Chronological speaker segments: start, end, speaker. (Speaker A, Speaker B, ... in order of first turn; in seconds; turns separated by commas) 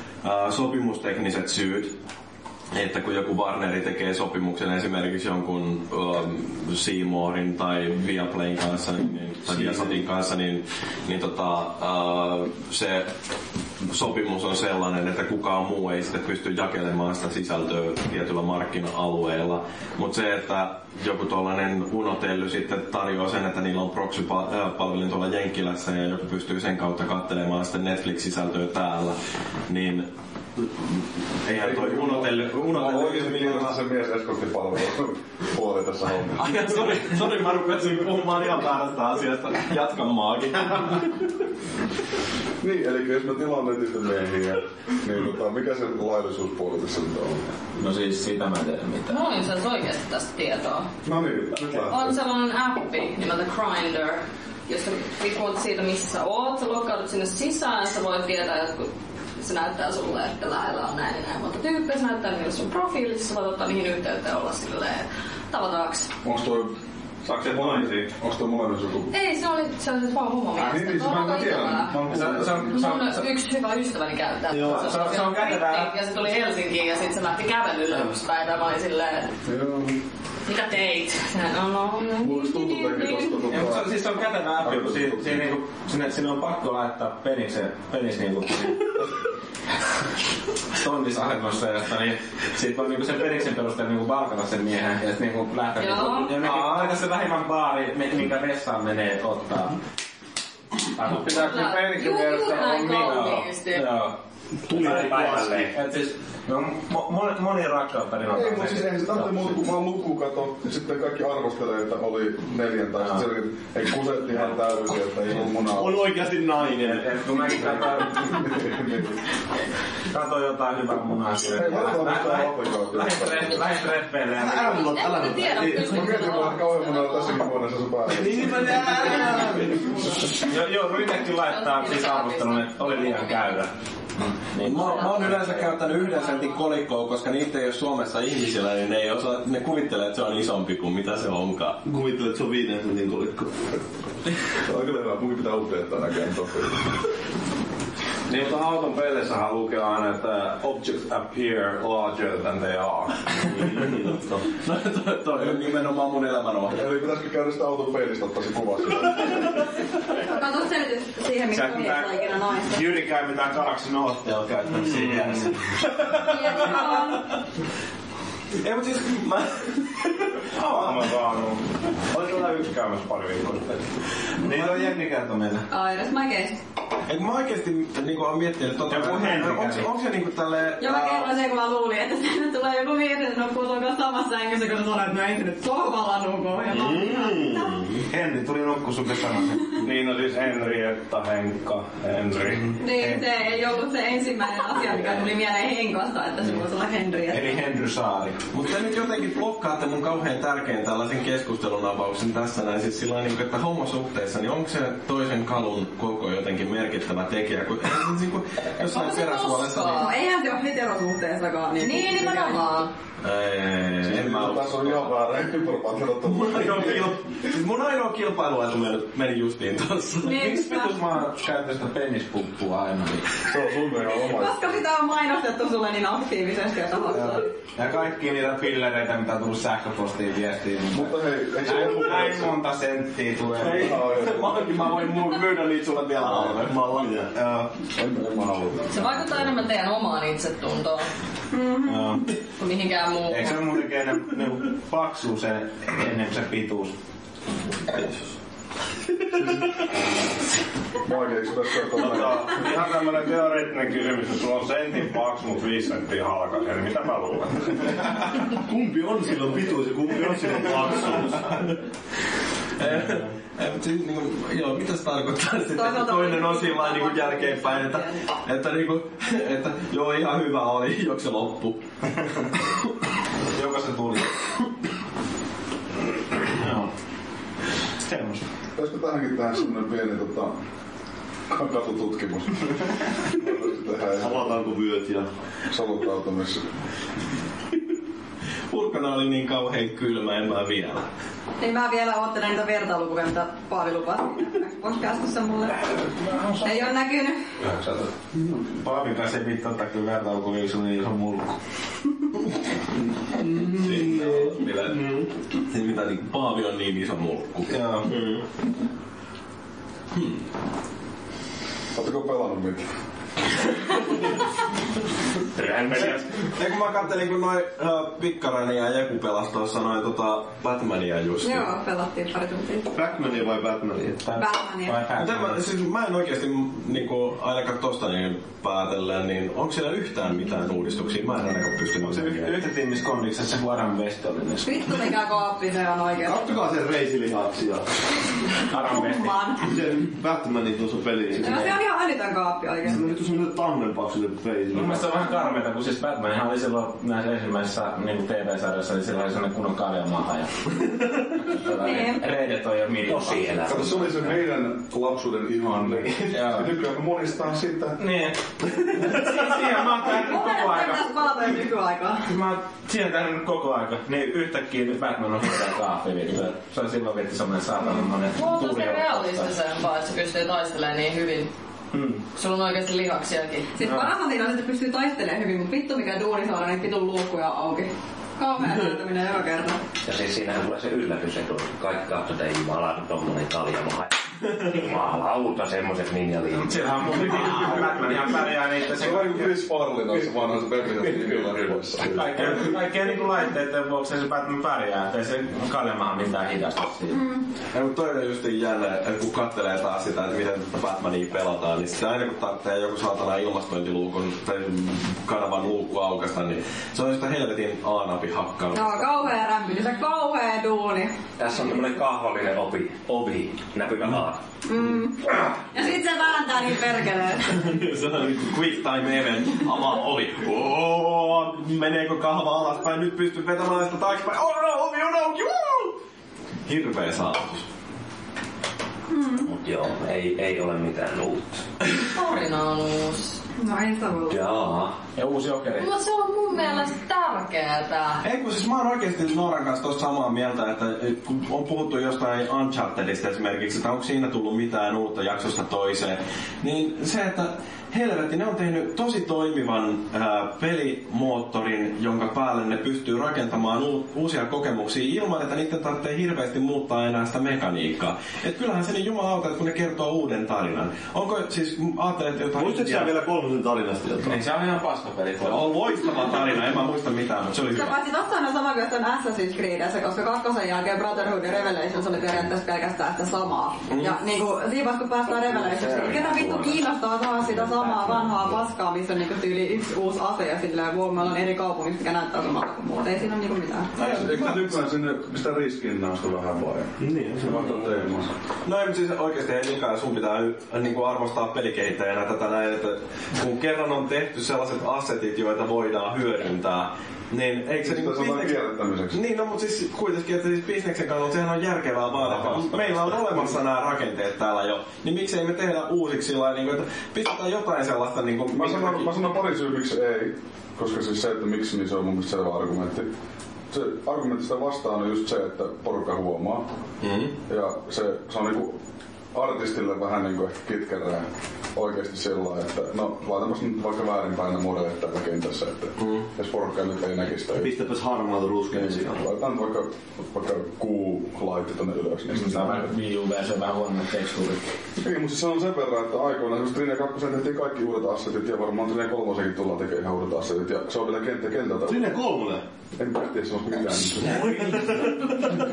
Speaker A: 0.2-1.9, Speaker A: 2.7-13.1, Speaker A: 13.8-29.2, Speaker A: 29.7-30.1, Speaker A: 30.6-30.9, Speaker A: 31.4-33.8, Speaker B: 31.5-36.6, Speaker A: 36.4-41.2, Speaker B: 42.6-47.5, Speaker C: 47.8-49.2, Speaker D: 49.1-50.9, Speaker B: 51.0-52.1, Speaker D: 51.9-66.1, Speaker B: 66.2-66.7, Speaker E: 67.2-68.1, Speaker B: 67.3-69.1, Speaker D: 69.1-79.3, Speaker B: 70.6-72.8, Speaker C: 72.1-73.2, Speaker F: 74.5-74.9, Speaker C: 74.5-75.9, Speaker B: 79.5-80.0, Speaker D: 80.5-83.4, Speaker B: 82.2-84.0, Speaker C: 83.5-88.9, Speaker B: 84.6-85.5, Speaker C: 90.7-99.8, Speaker D: 95.8-96.5, Speaker C: 100.9-104.2, Speaker E: 101.0-103.1, Speaker D: 101.3-104.1, Speaker F: 104.7-105.7, Speaker C: 104.7-109.5, Speaker G: 104.8-105.4, Speaker B: 108.3-116.2, Speaker F: 115.7-118.0, Speaker C: 116.8-118.5, Speaker B: 118.2-119.2, Speaker C: 120.1-124.9, Speaker B: 121.5-123.7, Speaker F: 124.3-126.4, Speaker D: 124.7-127.4, Speaker B: 125.8-128.9, Speaker A: 128.2-130.1, Speaker F: 128.3-130.1, Speaker C: 130.4-135.8, Speaker D: 131.2-133.6, Speaker A: 134.6-141.8, Speaker D: 134.7-136.6, Speaker F: 141.8-143.6, Speaker B: 144.6-146.9, Speaker E: 148.3-153.5, Speaker F: 153.4-154.4, Speaker A: 154.5-156.8, Speaker B: 156.7-159.6, Speaker H: 160.1-162.9, Speaker C: 161.5-165.6, Speaker H: 166.2-167.3, Speaker A: 166.4-167.2, Speaker A: 168.6-170.9, Speaker E: 170.6-173.9, Speaker C: 174.4-175.7, Speaker H: 175.7-176.6, Speaker A: 177.1-181.4, Speaker C: 178.9-179.9, Speaker H: 180.8-187.8, Speaker F: 186.7-188.1, Speaker C: 188.1-189.8, Speaker E: 189.8-192.8, Speaker C: 192.6-193.2, Speaker H: 192.8-197.6, Speaker C: 197.3-198.4, Speaker A: 198.5-210.1, Speaker D: 208.8-210.1, Speaker H: 210.0-212.8, Speaker D: 211.8-212.9, Speaker A: 213.2-215.2, Speaker B: 214.0-217.1, Speaker A: 216.2-220.8, Speaker H: 220.2-221.0, Speaker C: 220.3-223.3, Speaker B: 223.4-224.6, Speaker H: 224.1-227.5, Speaker C: 227.1-234.0, Speaker B: 230.9-232.6, Speaker A: 233.6-237.1, Speaker B: 233.6-235.0, Speaker F: 236.2-237.3, Speaker B: 237.9-239.4, Speaker D: 238.9-241.1, Speaker H: 241.5-242.1, Speaker C: 241.9-242.2, Speaker D: 242.6-243.7, Speaker C: 243.3-246.9, Speaker B: 251.0-252.8, Speaker E: 252.0-258.0, Speaker F: 258.4-261.6, Speaker A: 262.8-271.8, Speaker H: 265.7-268.2, Speaker C: 273.5-274.3, Speaker C: 276.5-276.9, Speaker C: 278.1-278.4, Speaker B: 278.8-280.6, Speaker B: 281.5-284.4, Speaker F: 284.2-285.3, Speaker B: 285.7-286.7, Speaker A: 288.7-291.1, Speaker H: 291.6-295.9, Speaker H: 296.6-297.4, Speaker C: 297.7-298.1, Speaker C: 298.7-301.6, Speaker F: 303.6-305.3, Speaker A: 303.8-304.6, Speaker C: 304.1-304.4, Speaker A: 305.7-307.7, Speaker C: 307.7-308.1, Speaker F: 308.1-308.4, Speaker A: 310.1-310.4, Speaker B: 311.9-312.9, Speaker G: 315.6-316.3, Speaker A: 315.9-321.7, Speaker H: 321.4-322.9, Speaker F: 322.9-324.2, Speaker C: 324.2-325.6, Speaker H: 324.4-325.1, Speaker A: 325.2-332.6, Speaker C: 332.0-334.9, Speaker H: 334.6-336.5, Speaker F: 336.2-337.9, Speaker C: 338.7-339.3, Speaker H: 338.7-339.7, Speaker F: 339.6-341.8, Speaker C: 341.4-341.6, Speaker H: 341.4-343.1, Speaker F: 342.8-345.1, Speaker C: 344.7-350.7, Speaker C: 351.4-353.9, Speaker H: 351.7-352.3, Speaker G: 353.1-354.2, Speaker B: 353.6-358.0, Speaker C: 356.3-356.7, Speaker C: 358.0-358.4, Speaker C: 358.9-361.1, Speaker H: 360.0-362.3, Speaker C: 362.3-369.5, Speaker D: 368.3-371.5, Speaker C: 371.9-372.2, Speaker D: 372.4-373.7, Speaker H: 373.7-379.8, Speaker C: 373.8-374.1, Speaker G: 380.1-386.8, Speaker C: 386.5-389.6, Speaker B: 388.9-392.8, Speaker C: 392.1-397.2, Speaker H: 397.1-397.4, Speaker A: 397.7-409.3, Speaker H: 408.7-411.1, Speaker G: 411.4-414.4, Speaker H: 414.6-417.7, Speaker A: 417.5-426.0, Speaker A: 426.6-427.6, Speaker H: 429.1-429.5, Speaker G: 429.4-431.6, Speaker D: 432.0-433.4, Speaker H: 433.6-434.4, Speaker G: 434.3-434.9, Speaker C: 435.1-435.9, Speaker D: 435.8-438.2, Speaker A: 438.2-463.1, Speaker F: 462.6-464.4, Speaker C: 464.2-465.6, Speaker A: 465.4-468.0, Speaker H: 467.7-483.9, Speaker A: 473.9-474.1, Speaker G: 475.5-476.8, Speaker G: 477.5-478.4, Speaker A: 483.9-484.8, Speaker B: 484.0-488.3, Speaker F: 487.0-488.0, Speaker A: 488.6-498.6, Speaker B: 497.8-499.2, Speaker A: 499.1-509.1, Speaker B: 508.5-513.1, Speaker B: 513.7-516.7, Speaker A: 517.0-517.4, Speaker B: 517.5-518.8, Speaker B: 519.3-527.7, Speaker A: 526.0-526.3, Speaker F: 527.5-529.2, Speaker B: 528.7-532.9, Speaker C: 532.3-534.6, Speaker B: 535.0-542.0, Speaker F: 541.9-542.6, Speaker B: 543.0-544.7, Speaker F: 544.2-545.6